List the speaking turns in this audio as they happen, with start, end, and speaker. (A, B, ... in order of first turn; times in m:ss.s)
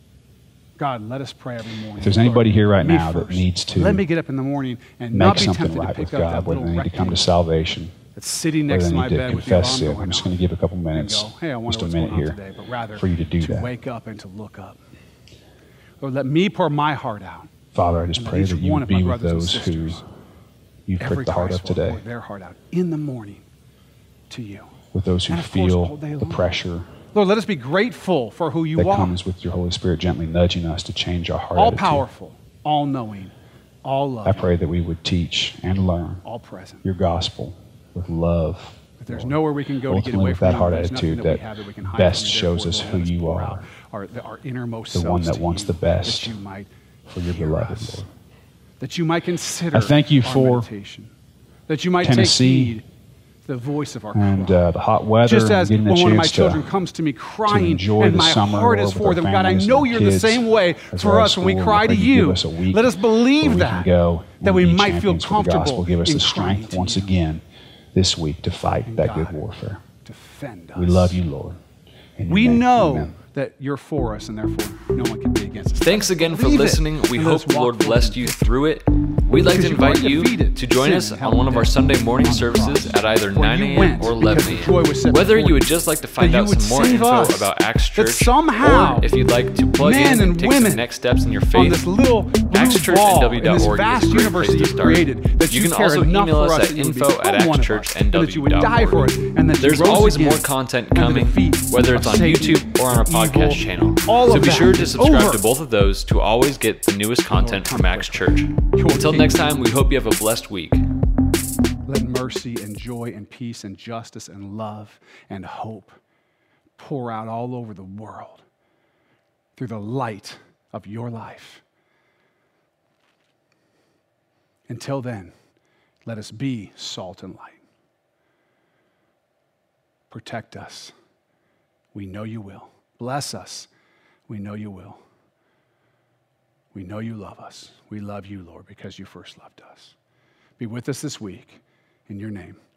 0:00.8-0:07.3 A
0:02.0-0:04.0 B
0:05.1-0:07.9 B
0:08.2-0:10.3 A
0:08.7-0:12.4 B
0:10.9-0:14.8 A
0:13.0-0:13.7 B
0:16.0-0:17.5 A
0:17.7-0:20.0 B
0:18.1-0:20.0 A
0:20.9-0:22.0 B
0:21.0-0:23.4 A
0:24.3-0:24.7 A
0:24.9-0:26.9 B
0:25.3-0:26.5 A
0:27.1-0:29.2 A
0:28.8-0:32.0 B
0:31.6-0:33.3 A
0:33.8-0:34.5 A
0:34.2-0:36.2 B
0:36.2-0:36.8 A
0:36.8-0:43.6 B
0:39.0-0:46.7 A
0:44.9-0:46.3 B
0:47.1-0:48.1 B
0:47.2-0:48.0 A
0:48.8-0:51.1 A
0:49.7-0:50.7 B
0:51.7-0:52.8 A
0:52.0-0:52.8 B
0:53.5-0:54.6 A
0:54.1-0:56.7 B
0:55.2-1:03.9 A
0:57.5-1:07.4 B
1:04.4-1:07.2 A
1:07.9-1:09.8 B
1:08.9-1:09.4 A
1:10.0-1:11.2 A
1:10.8-1:11.6 B
1:12.2-1:13.2 B
1:12.3-1:18.4 A
1:15.8-1:31.9 C
1:19.4-1:29.1 A
1:29.8-1:30.8 A
1:31.5-1:45.4 A
1:32.5-1:50.8 C
1:47.3-1:49.4 A
1:51.9-1:56.0 A
1:56.8-1:58.4 A
1:59.6-2:01.6 A
2:04.7-2:05.3 A
2:06.1-2:07.6 A
2:10.1-2:10.9 A
2:11.9-2:13.7 A
2:14.3-2:15.0 A
2:16.7-2:19.9 A
2:20.6-2:22.6 A